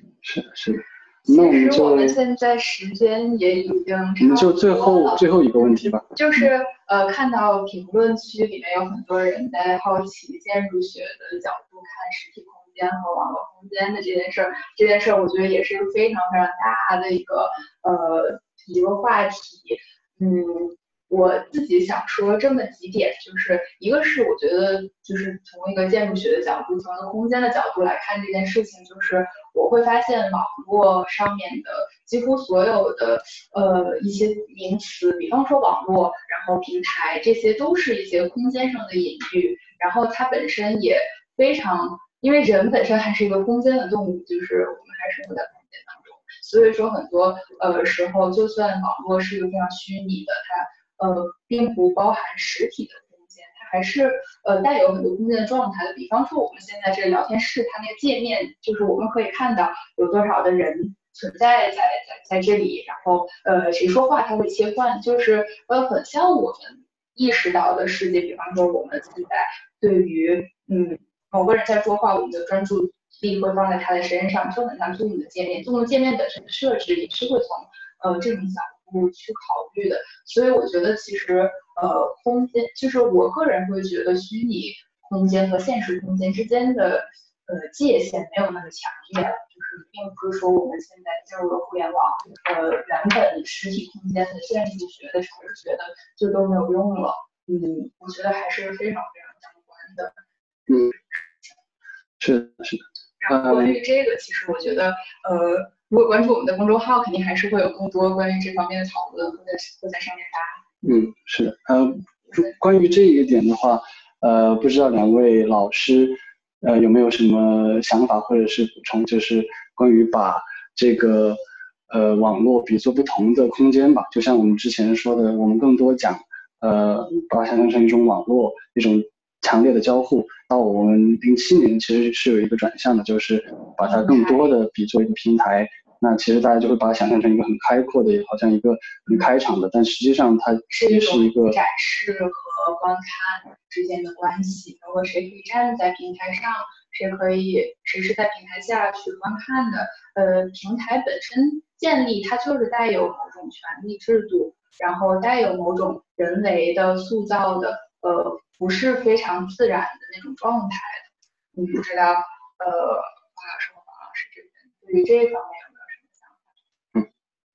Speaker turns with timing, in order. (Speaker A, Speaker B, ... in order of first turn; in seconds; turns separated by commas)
Speaker A: 0.2-2.2, Speaker B: 1.3-5.2, Speaker A: 4.2-6.5, Speaker B: 6.2-100.1, Speaker A: 100.7-100.9, Speaker A: 102.2-103.8, Speaker B: 103.2-110.6, Speaker A: 110.8-141.6, Speaker B: 133.8-134.5, Speaker B: 140.7-161.0, Speaker B: 161.6-166.3